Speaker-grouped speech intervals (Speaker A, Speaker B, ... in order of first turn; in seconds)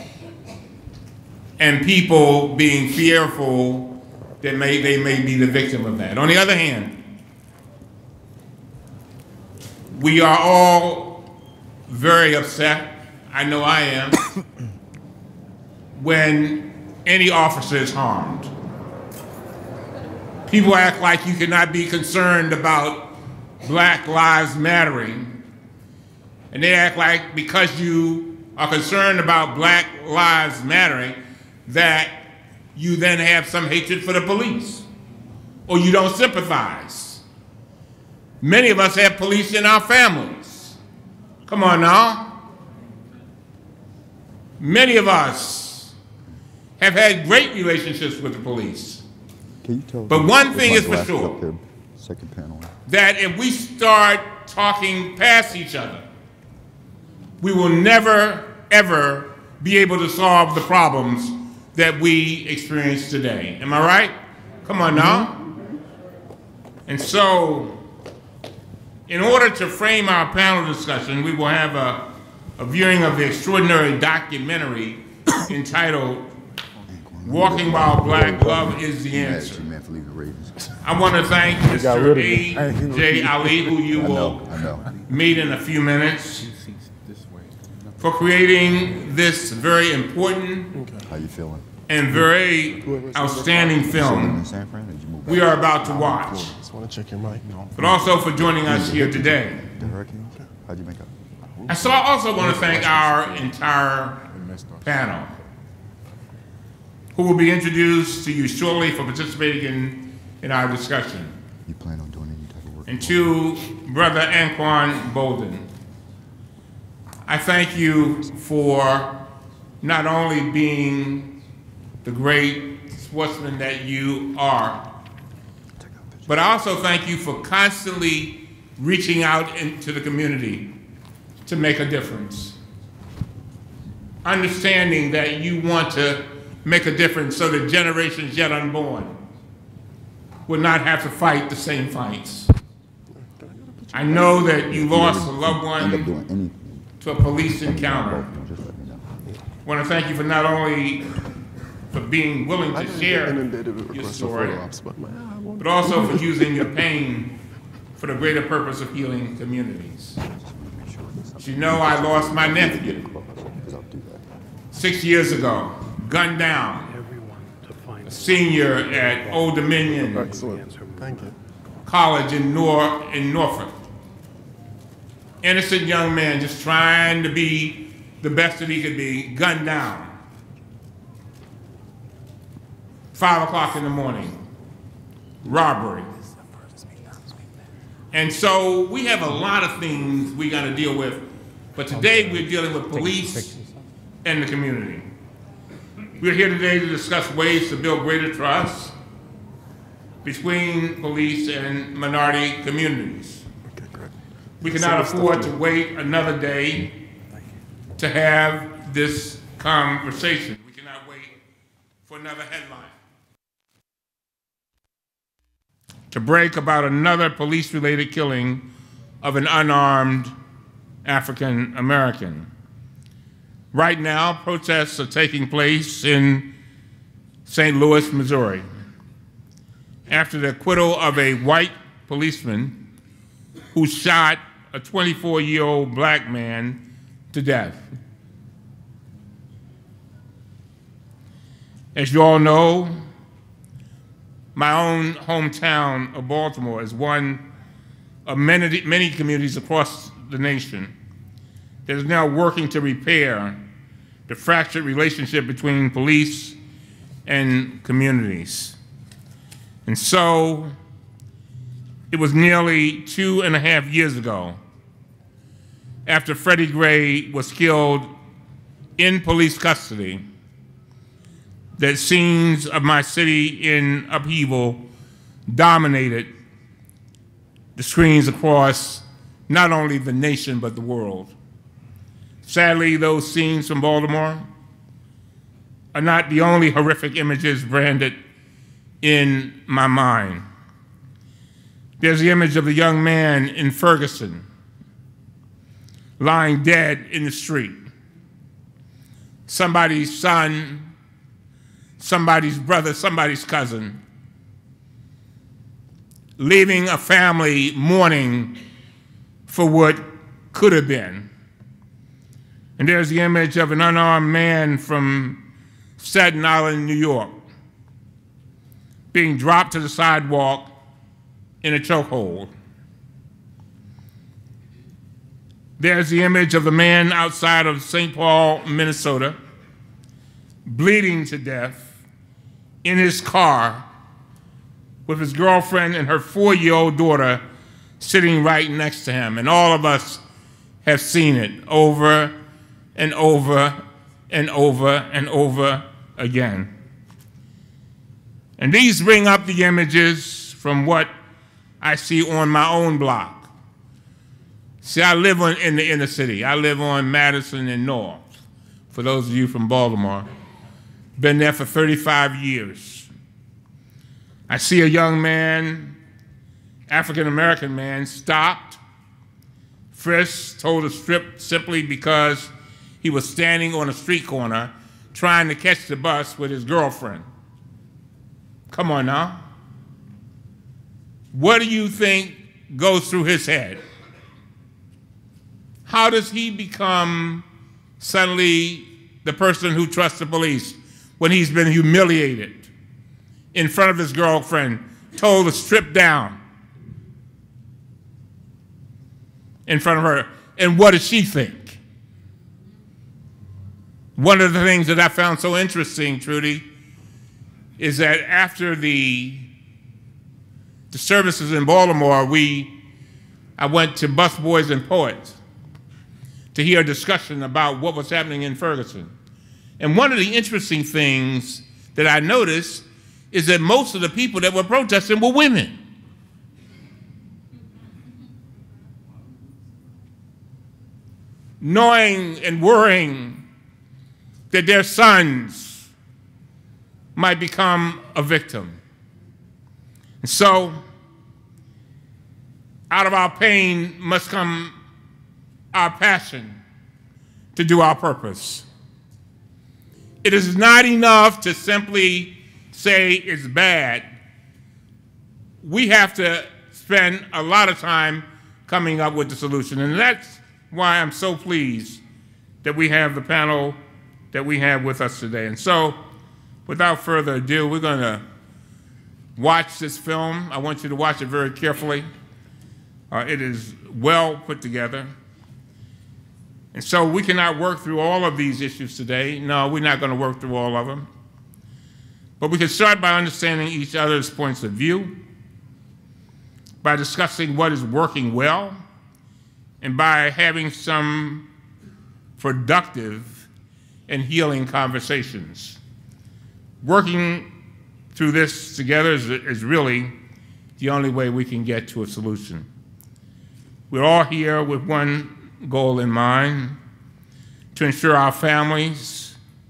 Speaker A: 1.6-7.0, 9.9-11.3, 11.9-14.2, 15.9-18.5, 20.5-25.4, 26.5-34.9, 35.7-37.2, 38.4-40.8, 41.5-42.4, 44.6-45.9, 46.8-49.0, 50.1-51.4, 52.9-56.0, 57.4-65.4, 66.9-67.8, 69.1-76.3, 77.2-79.7, 80.8-86.5, 88.0-90.7, 91.9-94.4, 95.2-96.5, 97.8-99.6, 101.7-104.2, 104.8-105.3, 107.2-111.3, 112.9-115.7, 117.3-119.2, 119.8-121.3, 122.0-124.8, 126.3-130.7, 131.4-132.6, 134.2-139.2, 140.5-142.5, 143.9-146.1, 147.0-148.3, 149.7-151.2, 151.9-154.7, 155.6-157.4, 158.0-160.2, 161.4-163.0, 164.7-166.9, 168.1-170.3, 171.9-173.7, 175.4-180.1, 183.1-184.4, 185.4-186.1, 188.1-193.6, 194.2-195.1, 196.2-198.9, 200.2-203.5, 204.6-206.9, 208.0-211.3, 212.1-212.9, 216.1-218.7, 219.2-220.3, 221.1-222.5, 223.7-226.5, 227.5-228.7, 230.1-232.8, 233.7-237.8, 241.9-242.9, 244.6-247.4, 248.3-250.9, 251.9-253.7, 254.3-256.6, 257.3-258.8, 259.9-260.7, 262.1-264.6, 266.1-268.1, 269.0-270.2, 271.8-274.9, 275.5-276.3, 277.8-281.3, 282.4-284.5, 285.9-288.2, 289.0-290.4, 292.0-294.4, 296.2-297.8, 299.5-300.9, 302.0-304.0, 306.4-308.6, 309.5-311.3, 312.8-315.4, 316.0-317.4, 319.1-320.8, 321.6-322.5, 325.8-329.4, 330.7-331.9, 332.8-333.9, 335.1-337.4, 338.0-340.2, 340.8-342.4, 343.0-346.7, 348.6-351.1, 351.8-353.5, 354.8-358.3, 358.9-360.3, 361.2-363.1, 364.5-366.0, 366.9-368.8, 369.9-377.3, 378.7-379.4, 381.3-383.8, 385.9-387.4, 388.0-392.7, 393.5-396.4, 399.7-401.8, 404.2-406.7, 407.8-409.5, 410.9-412.8, 413.6-415.4, 416.5-419.1, 419.8-425.8, 431.6-433.4, 434.5-435.9, 437.2-438.8, 440.2-440.8, 442.9-444.7, 445.7-446.6, 447.6-448.7, 450.2-454.1, 455.6-462.0, 462.6-463.8, 464.3-466.0, 466.7-468.2, 469.4-472.1, 473.1-475.1, 476.7-481.1, 482.4-485.2, 486.8-488.8, 489.8-491.5, 492.4-493.5, 494.1-495.8, 496.8-497.5, 498.1-500.1, 500.8-502.7, 503.9-506.8, 507.7-509.4
Speaker B: 49.6-52.7, 76.9-80.7, 83.9-84.8, 91.1-91.6, 93.9-95.6, 97.7-101.9, 111.7-113.4, 144.7-146.8, 147.6-149.1, 161.8-164.2
Speaker C: 93.0-93.9, 96.0-97.4, 143.4-143.9, 152.7-156.3, 170.1-171.3, 203.8-204.1, 204.7-205.5
Speaker D: 166.9-168.2, 170.3-171.1